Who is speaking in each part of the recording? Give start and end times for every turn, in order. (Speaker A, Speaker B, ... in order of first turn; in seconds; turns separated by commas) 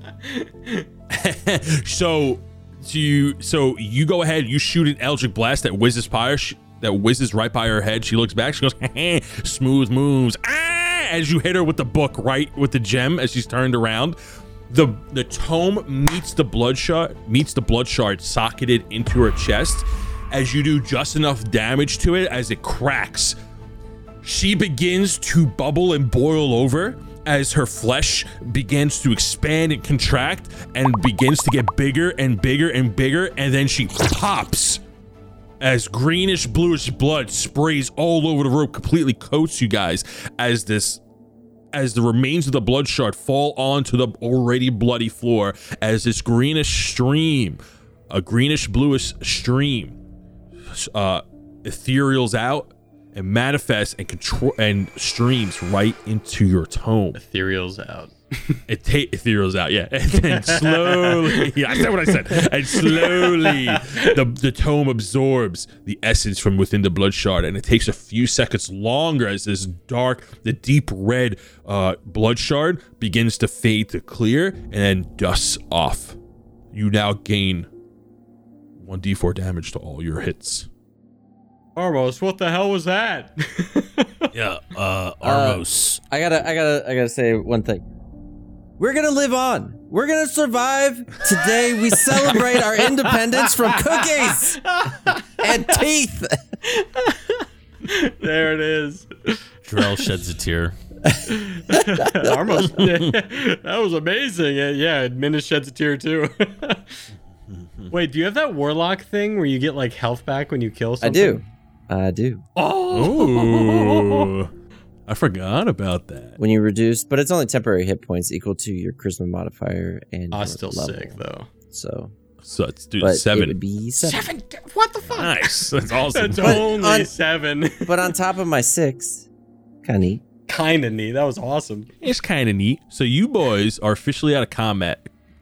Speaker A: 0.2-0.8, Speaker B: 1.1-14.2, Speaker B: 14.7-23.4, Speaker B: 24.2-34.8, Speaker B: 35.6-41.0, Speaker B: 41.7-50.0, Speaker B: 50.7-57.2, Speaker A: 57.2-58.6, Speaker B: 58.7-76.2, Speaker A: 60.1-64.1, Speaker B: 76.7-77.7, Speaker B: 78.8-80.7, Speaker A: 81.8-84.3, Speaker C: 84.3-86.0, Speaker D: 85.2-87.8, Speaker D: 88.8-94.7, Speaker A: 91.2-95.8, Speaker D: 95.4-96.5, Speaker A: 96.6-100.0, Speaker C: 99.6-100.8, Speaker D: 101.1-102.8, Speaker A: 101.3-107.0, Speaker B: 107.5-107.9, Speaker A: 107.9-111.4, Speaker D: 111.0-112.4, Speaker A: 112.5-114.3, Speaker B: 112.9-114.5, Speaker B: 115.1-116.4, Speaker D: 116.4-121.2, Speaker A: 120.3-121.5, Speaker D: 121.7-122.1, Speaker B: 122.4-123.5, Speaker D: 123.0-124.3, Speaker A: 124.0-128.1, Speaker B: 125.0-126.7, Speaker D: 126.4-127.1, Speaker D: 127.8-129.3, Speaker D: 129.8-130.2, Speaker A: 130.5-131.9, Speaker B: 132.0-135.1